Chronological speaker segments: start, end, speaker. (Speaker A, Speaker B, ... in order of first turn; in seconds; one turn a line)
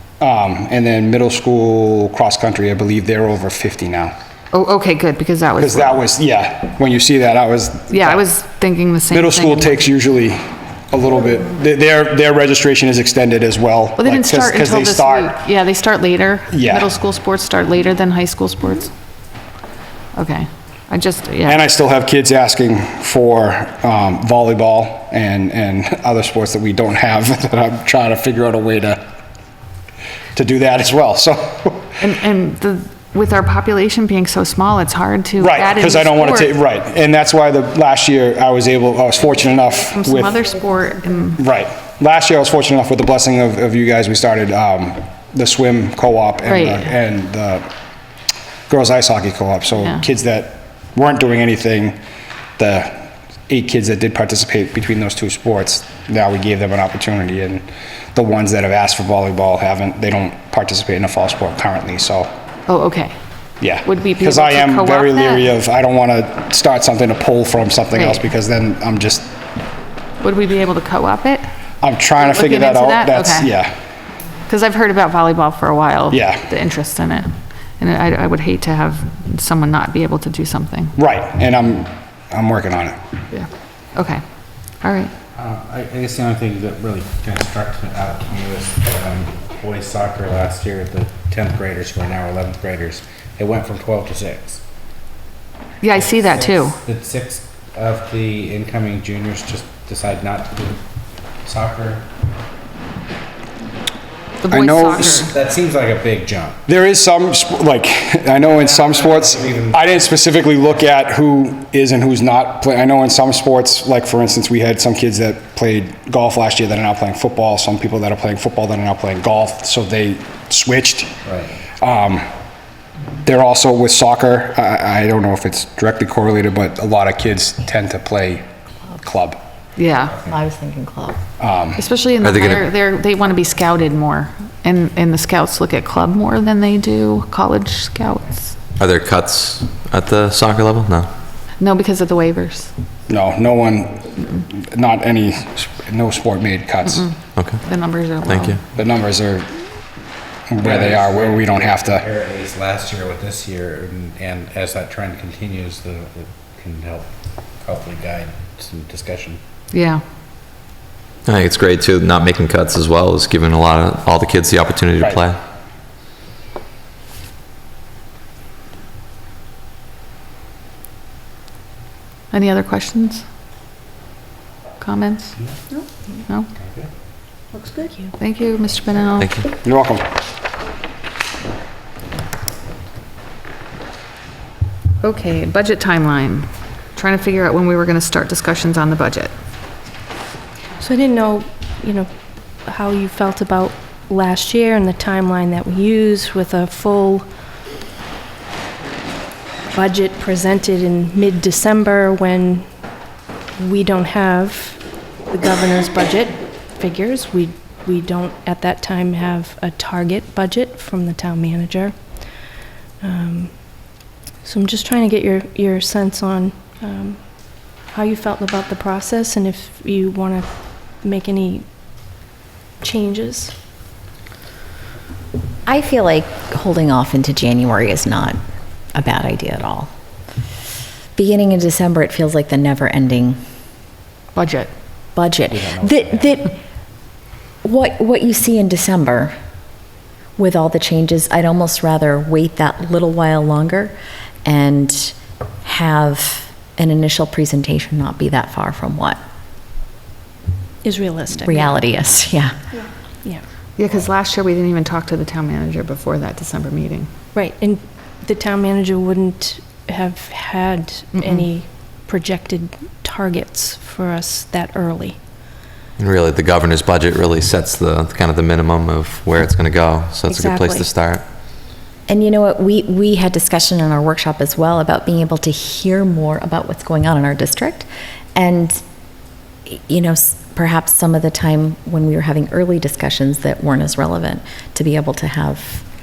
Speaker A: 0.2-4.1
Speaker B: 4.5-6.0
Speaker A: 5.6-8.2
Speaker B: 7.9-9.8
Speaker A: 9.1-15.3
Speaker B: 14.0-18.9
Speaker A: 16.5-16.9
Speaker B: 20.1-21.6
Speaker A: 21.4-29.0
Speaker A: 30.3-32.0
Speaker B: 32.0-36.5
Speaker A: 35.4-40.5
Speaker B: 39.8-41.4
Speaker A: 41.4-47.7
Speaker B: 46.4-46.9
Speaker A: 48.7-52.0
Speaker B: 49.8-50.0
Speaker A: 52.6-62.3
Speaker B: 62.7-63.1
Speaker A: 63.6-69.3
Speaker B: 63.8-65.5
Speaker B: 67.9-68.3
Speaker B: 70.2-71.4
Speaker A: 71.8-73.7
Speaker B: 72.2-73.5
Speaker B: 74.5-81.0
Speaker A: 76.1-76.4
Speaker A: 81.0-83.0
Speaker B: 83.3-84.2
Speaker B: 84.8-85.1
Speaker C: 85.3-94.6
Speaker B: 95.8-96.8
Speaker C: 95.9-100.8
Speaker C: 101.4-102.0
Speaker B: 104.4-105.3
Speaker A: 104.5-105.0
Speaker C: 104.9-106.6
Speaker A: 106.7-121.1
Speaker C: 108.4-109.9
Speaker C: 121.2-121.5
Speaker A: 121.8-122.3
Speaker A: 123.2-128.4
Speaker A: 129.0-129.4
Speaker B: 129.8-130.2
Speaker D: 130.2-131.2
Speaker A: 131.4-131.8
Speaker B: 131.7-138.6
Speaker E: 132.2-132.6
Speaker E: 138.8-141.1
Speaker B: 141.6-142.7
Speaker A: 143.1-147.1
Speaker B: 146.8-148.6
Speaker E: 147.3-147.6
Speaker E: 148.2-148.6
Speaker A: 148.7-149.5
Speaker A: 150.5-152.1
Speaker C: 150.6-159.4
Speaker B: 159.7-160.0
Speaker E: 161.2-165.4
Speaker A: 165.0-165.2
Speaker B: 172.3-173.2
Speaker B: 174.8-175.4
Speaker C: 176.6-176.9
Speaker F: 177.6-178.1
Speaker B: 178.2-179.3
Speaker E: 179.2-179.4
Speaker A: 179.6-180.1
Speaker B: 185.0-189.3
Speaker F: 190.8-197.2
Speaker F: 199.7-202.7
Speaker F: 203.6-212.4
Speaker F: 213.0-221.6
Speaker F: 222.8-223.5
Speaker D: 225.7-228.4
Speaker D: 228.9-229.9
Speaker D: 231.1-233.4
Speaker B: 234.3-234.7
Speaker D: 235.1-236.6
Speaker C: 235.5-236.3
Speaker D: 237.6-239.3
Speaker D: 240.4-243.9
Speaker D: 244.4-249.2
Speaker F: 250.8-251.8
Speaker D: 251.4-252.6
Speaker B: 253.8-257.1
Speaker F: 257.3-265.2
Speaker B: 261.1-261.5
Speaker E: 266.0-271.2
Speaker F: 270.3-270.9
Speaker D: 272.1-278.8
Speaker D: 279.7-285.9